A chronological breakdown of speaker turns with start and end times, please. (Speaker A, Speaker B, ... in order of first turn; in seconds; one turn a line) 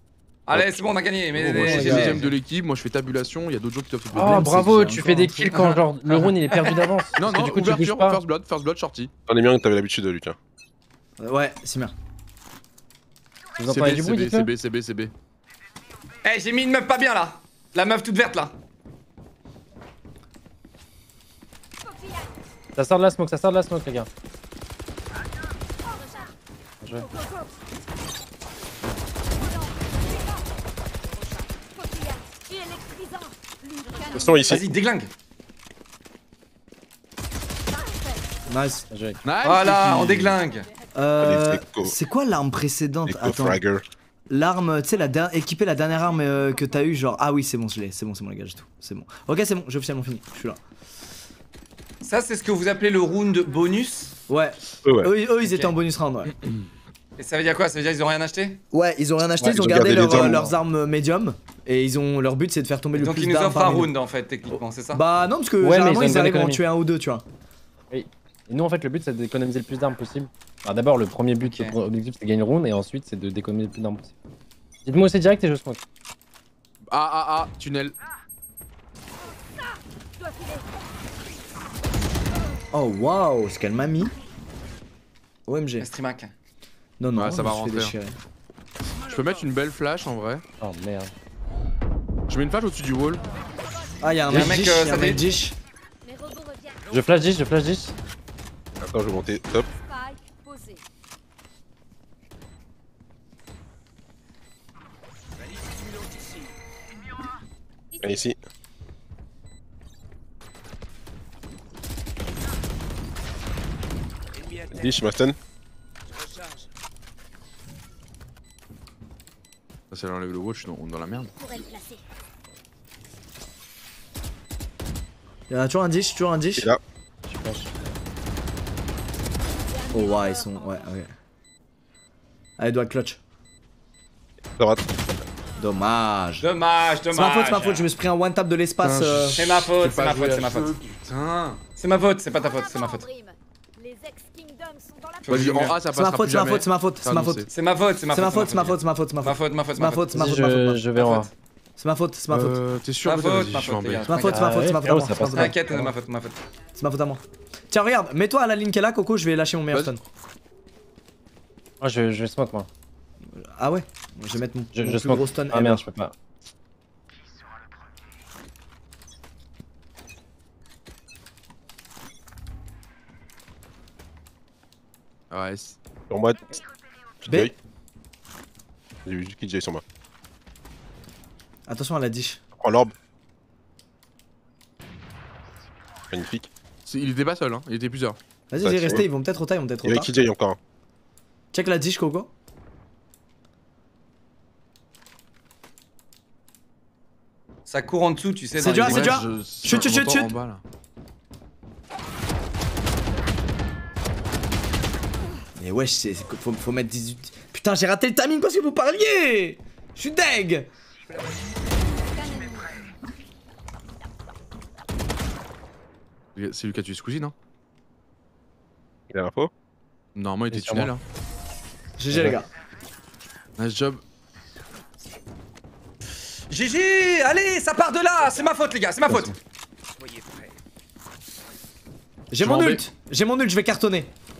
Speaker A: 0.5-2.3
Speaker B: 0.5-0.8
Speaker C: 1.4-4.7
Speaker D: 1.7-2.2
Speaker E: 4.1-8.2
Speaker D: 4.2-5.5
Speaker A: 6.5-6.8
Speaker C: 7.2-9.1
Speaker B: 9.3-10.4
Speaker D: 11.2-11.9
Speaker E: 13.6-14.5
Speaker C: 13.7-15.1
Speaker A: 16.2-18.5
Speaker F: 21.8-22.3
Speaker E: 22.8-24.1
Speaker F: 25.8-26.3
Speaker F: 26.9-27.5
Speaker F: 29.3-30.5
Speaker F: 31.7-34.6
Speaker B: 34.1-34.7
Speaker A: 34.4-35.1
Speaker F: 37.7-38.5
Speaker D: 38.5-38.9
Speaker E: 38.9-39.2
Speaker C: 39.2-40.4
Speaker A: 39.4-40.7
Speaker F: 40.5-40.8
Speaker D: 40.9-43.6
Speaker B: 41.2-41.9
Speaker B: 43.1-43.8
Speaker D: 44.3-50.6
Speaker A: 52.0-54.1
Speaker D: 54.3-56.3
Speaker B: 54.8-55.1
Speaker A: 55.4-55.7
Speaker C: 56.3-56.6
Speaker A: 57.2-58.6
Speaker D: 58.7-63.9
Speaker B: 59.4-60.5
Speaker E: 60.1-60.5
Speaker A: 63.0-65.0
Speaker D: 64.5-67.2
Speaker E: 65.6-66.6
Speaker E: 67.9-74.1
Speaker A: 71.4-71.7
Speaker E: 74.8-75.8
Speaker C: 76.9-78.0
Speaker F: 80.2-80.7
Speaker D: 82.7-84.1
Speaker D: 85.5-85.9
Speaker A: 85.8-86.3
Speaker D: 87.0-88.2
Speaker C: 87.2-87.9
Speaker C: 88.8-90.4
Speaker E: 90.6-91.1
Speaker C: 92.3-93.2
Speaker D: 94.0-95.5
Speaker A: 94.3-95.3
Speaker F: 96.0-96.8
Speaker E: 96.9-97.9
Speaker B: 98.8-99.7
Speaker F: 99.7-100.8
Speaker F: 107.9-108.2
Speaker B: 108.0-108.3
Speaker B: 114.7-115.3
Speaker C: 119.9-121.3
Speaker F: 121.4-122.0
Speaker D: 125.5-126.7
Speaker E: 127.3-127.7
Speaker F: 129.6-131.0
Speaker D: 129.9-131.1
Speaker D: 132.6-133.2
Speaker B: 134.6-135.2
Speaker D: 135.6-136.4
Speaker A: 136.4-137.9
Speaker D: 137.1-139.4
Speaker C: 138.8-141.6
Speaker A: 139.3-140.7
Speaker A: 141.8-143.1
Speaker F: 142.3-145.6
Speaker A: 145.2-145.8
Speaker C: 145.3-147.5
Speaker D: 145.9-147.5
Speaker A: 147.5-150.3
Speaker D: 148.1-150.8
Speaker E: 150.1-151.3
Speaker A: 150.9-151.3
Speaker D: 151.8-152.6
Speaker C: 152.3-154.2
Speaker A: 153.0-154.6
Speaker D: 154.1-155.9
Speaker E: 154.3-155.6
Speaker A: 155.3-156.4
Speaker D: 156.8-160.0
Speaker E: 161.8-162.7
Speaker D: 163.3-165.8
Speaker E: 164.7-166.1
Speaker C: 175.3-175.8
Speaker B: 176.1-176.4
Speaker B: 177.2-177.5
Speaker D: 177.2-177.5
Speaker B: 179.0-179.8
Speaker D: 181.7-182.4
Speaker B: 182.6-182.9
Speaker B: 186.1-186.5
Speaker C: 186.8-188.2
Speaker D: 188.5-190.1
Speaker B: 188.6-189.0
Speaker B: 189.8-190.6
Speaker D: 191.5-192.3
Speaker A: 197.7-199.2
Speaker D: 198.6-200.3
Speaker C: 198.6-200.6
Speaker D: 205.6-210.7
Speaker F: 211.8-212.8
Speaker C: 216.3-217.3
Speaker B: 219.1-219.5
Speaker C: 220.1-221.0
Speaker E: 220.5-220.9
Speaker D: 222.0-222.5
Speaker C: 223.6-224.0
Speaker A: 226.5-229.3
Speaker D: 229.1-229.3
Speaker D: 232.3-234.1
Speaker C: 232.4-232.8